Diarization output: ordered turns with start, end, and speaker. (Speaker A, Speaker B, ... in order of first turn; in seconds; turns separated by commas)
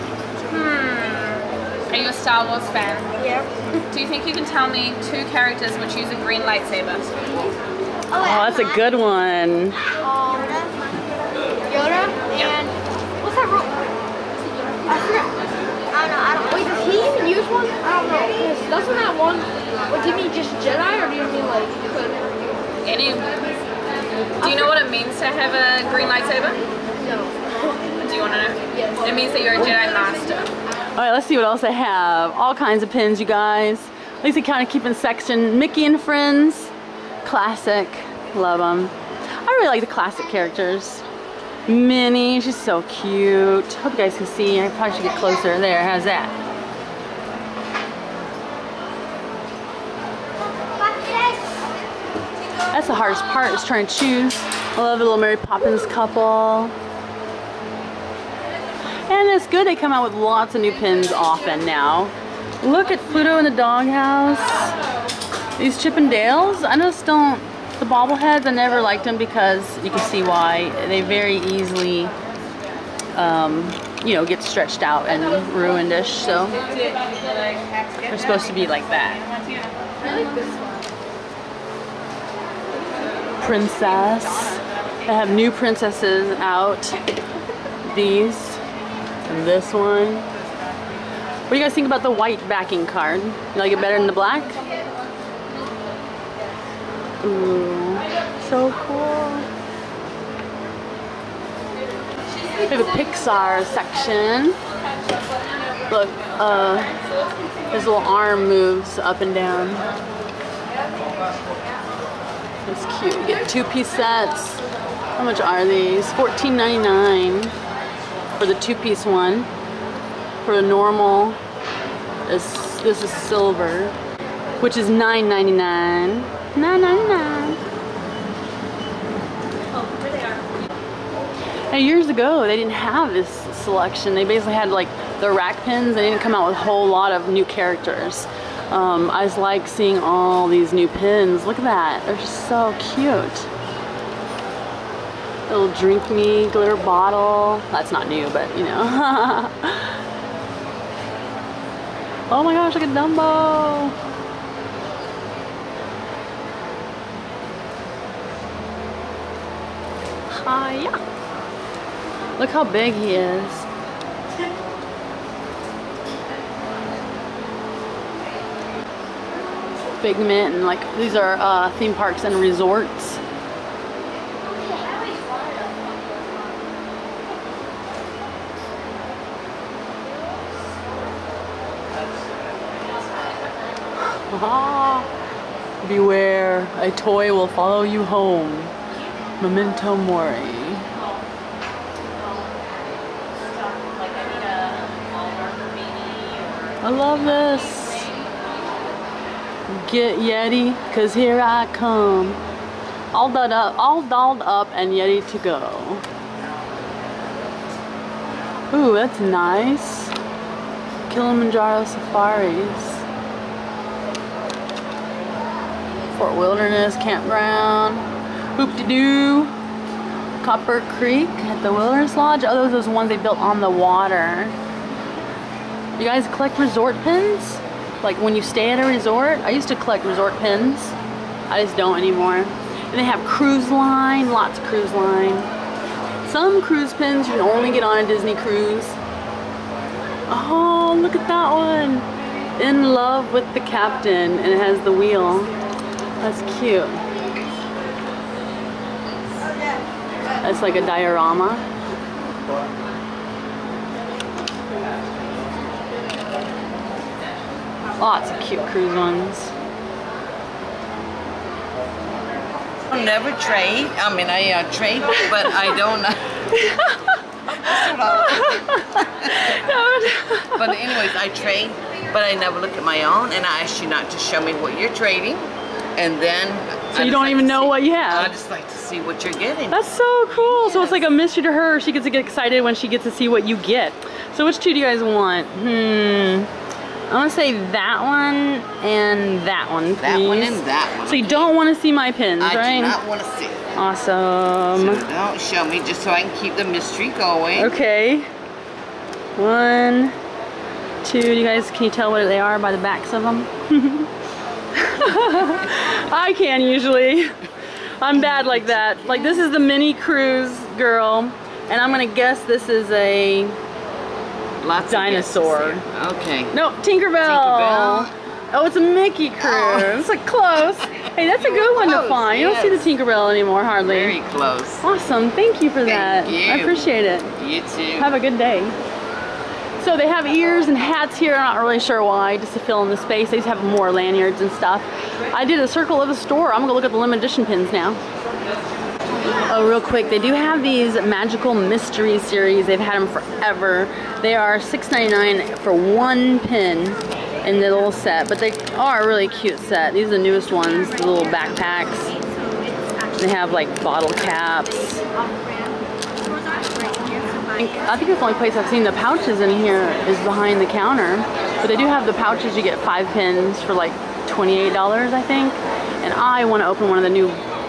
Speaker A: 0.5-3.1, Speaker B: 3.2-3.8, Speaker A: 3.9-7.5, Speaker B: 8.1-8.8, Speaker C: 8.2-9.8, Speaker B: 10.0-10.8, Speaker B: 11.7-13.9, Speaker B: 14.9-15.3, Speaker B: 15.9-22.3, Speaker A: 22.9-23.4, Speaker A: 24.4-26.6, Speaker B: 24.4-24.7, Speaker B: 27.0-27.8, Speaker A: 28.0-30.5, Speaker C: 31.0-36.7, Speaker C: 37.2-41.0, Speaker C: 41.7-46.3, Speaker C: 52.7-56.7, Speaker C: 59.1-64.8, Speaker C: 65.6-72.1, Speaker C: 73.1-76.6, Speaker C: 78.0-79.3, Speaker A: 80.0-80.5, Speaker C: 83.4-87.0, Speaker C: 87.9-88.6, Speaker C: 89.3-90.3, Speaker C: 91.5-94.6, Speaker C: 97.2-99.5, Speaker C: 102.7-104.6, Speaker C: 105.9-106.9, Speaker C: 107.7-109.9, Speaker C: 112.7-114.6, Speaker C: 115.2-117.5, Speaker C: 118.4-119.5, Speaker C: 120.4-121.4, Speaker C: 122.3-124.0, Speaker C: 124.6-127.6, Speaker C: 131.7-143.5, Speaker C: 145.5-150.0, Speaker C: 152.3-153.9, Speaker C: 160.3-161.0, Speaker C: 162.4-163.7, Speaker C: 170.0-173.2, Speaker C: 184.0-185.1, Speaker C: 185.8-188.7, Speaker C: 189.4-190.9, Speaker A: 193.8-196.7, Speaker C: 196.8-198.1, Speaker C: 199.7-202.4, Speaker C: 203.1-206.0, Speaker C: 208.7-210.1, Speaker C: 211.1-213.0, Speaker C: 216.2-218.1, Speaker C: 218.6-219.5, Speaker C: 220.4-224.5, Speaker C: 226.0-231.0, Speaker C: 231.5-235.5, Speaker C: 236.2-239.0, Speaker C: 240.3-242.1, Speaker C: 242.6-245.5, Speaker C: 246.2-247.0, Speaker C: 250.4-251.6, Speaker C: 258.0-259.5, Speaker D: 262.9-266.4, Speaker C: 266.5-270.9, Speaker D: 267.5-281.0, Speaker C: 276.9-278.3, Speaker C: 279.7-286.5, Speaker C: 287.1-293.0, Speaker D: 290.0-291.5, Speaker D: 292.4-293.6, Speaker C: 293.8-295.0, Speaker D: 294.7-297.8, Speaker C: 297.6-298.3, Speaker C: 299.4-300.1, Speaker C: 301.0-304.1, Speaker C: 304.8-307.3, Speaker C: 308.0-313.6, Speaker D: 314.6-316.5, Speaker C: 314.8-315.8, Speaker C: 316.5-324.2, Speaker D: 317.2-318.1, Speaker D: 319.4-320.1, Speaker D: 321.4-322.9, Speaker D: 323.9-324.9, Speaker C: 324.8-327.4, Speaker D: 325.8-328.1, Speaker C: 328.0-328.8, Speaker C: 329.8-338.0, Speaker C: 339.3-352.1, Speaker C: 353.2-355.0, Speaker B: 355.3-355.7, Speaker B: 356.2-357.5, Speaker C: 357.6-367.4